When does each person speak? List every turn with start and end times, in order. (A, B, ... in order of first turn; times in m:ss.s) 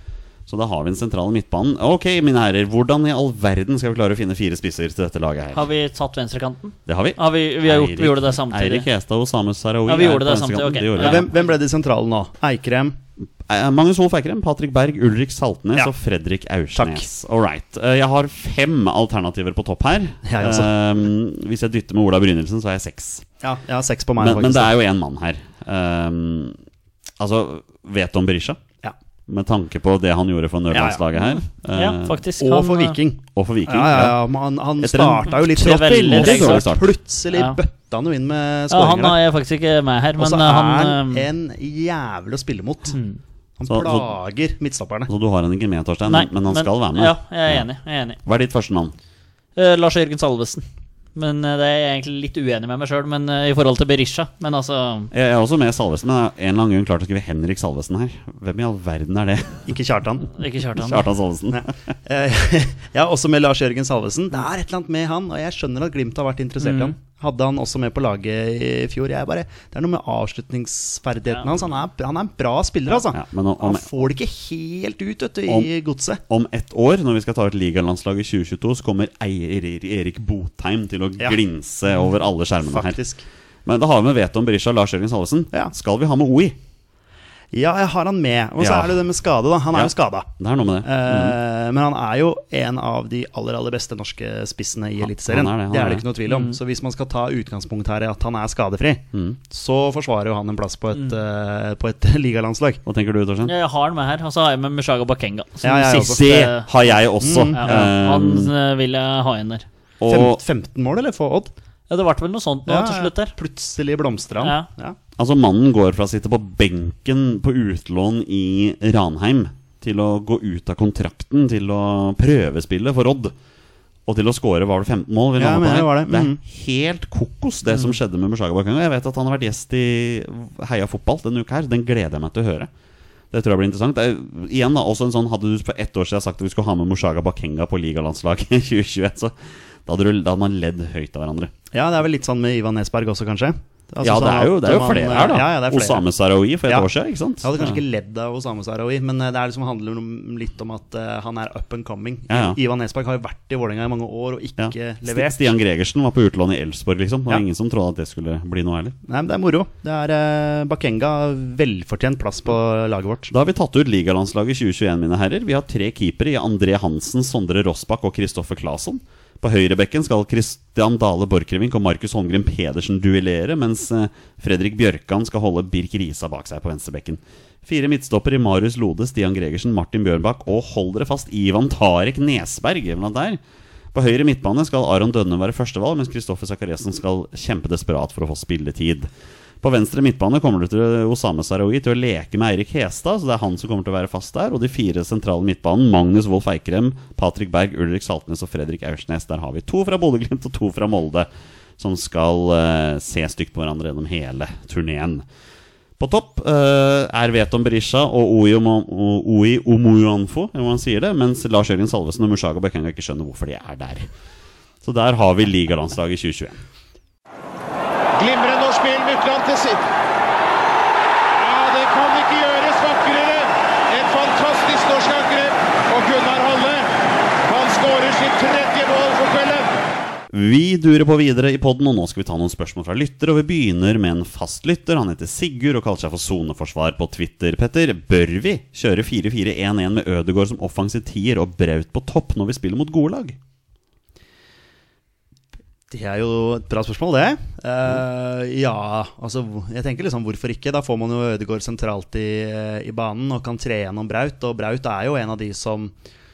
0:00.5-0:05.6 A
0:05.5-0:08.9 B
0:06.8-0:11.3 A
0:09.8-0:11.5 B
0:11.0-0:13.0 C
0:13.4-0:23.2 A
0:16.7-0:17.0 C
0:20.2-0:20.7 C
0:23.4-0:24.7 C
0:24.2-0:26.6 A
0:27.2-0:28.6 A
0:29.3-0:32.2 A
0:30.7-0:31.0 C
0:31.7-0:33.0 B
0:32.4-0:39.2 C
0:33.3-0:34.2 A
0:34.8-0:36.8 A
0:35.4-0:36.6 B
0:37.3-0:37.6 B
0:38.7-0:41.3 B
0:40.2-0:43.0 C
0:42.9-0:43.2 B
0:43.6-0:45.1 C
0:43.7-0:44.1 A
0:45.1-0:47.6 A
0:46.1-0:48.2 B
0:48.2-0:48.9 A
0:49.6-0:55.1 B
0:55.1-0:59.8 A
0:59.7-1:00.3 C
1:00.4-1:01.1 B
1:00.7-1:01.7 A
1:01.5-1:16.2 C
1:06.6-1:06.9 B
1:12.9-1:14.1 A
1:16.3-1:23.0 A
1:22.6-1:23.2 C
1:23.6-1:26.6 A
1:27.5-1:30.3 C
1:28.6-1:29.0 A
1:29.7-1:31.4 A
1:30.8-1:42.8 C
1:35.0-1:36.0 A
1:36.2-1:36.6 B
1:39.1-1:39.4 A
1:42.8-1:43.5 A
1:43.4-1:46.7 B
1:45.6-1:46.2 C
1:45.9-1:48.5 A
1:47.2-1:47.9 C
1:47.5-1:49.6 B
1:50.0-1:50.4 A
1:50.1-1:51.5 C
1:51.9-1:53.3 B
1:52.7-1:55.0 C
1:54.4-1:54.7 B
1:55.2-2:03.3 A
2:04.0-2:12.7 A
2:05.4-2:06.4 C
2:13.3-2:21.5 A
2:21.7-2:26.0 C
2:24.0-2:27.8 A
2:27.4-2:35.4 C
2:32.3-2:32.6 A
2:34.6-2:39.0 A
2:39.1-2:43.3 C
2:43.3-3:03.4 A
3:03.9-3:09.1 A
3:09.6-3:21.3 A
3:21.8-3:25.2 A
3:26.0-3:34.1 A
3:34.8-3:36.6 A
3:38.1-3:39.8 D
3:41.3-3:46.9 D
3:47.4-3:49.7 D
3:50.3-4:03.4 A
4:05.9-4:15.9 C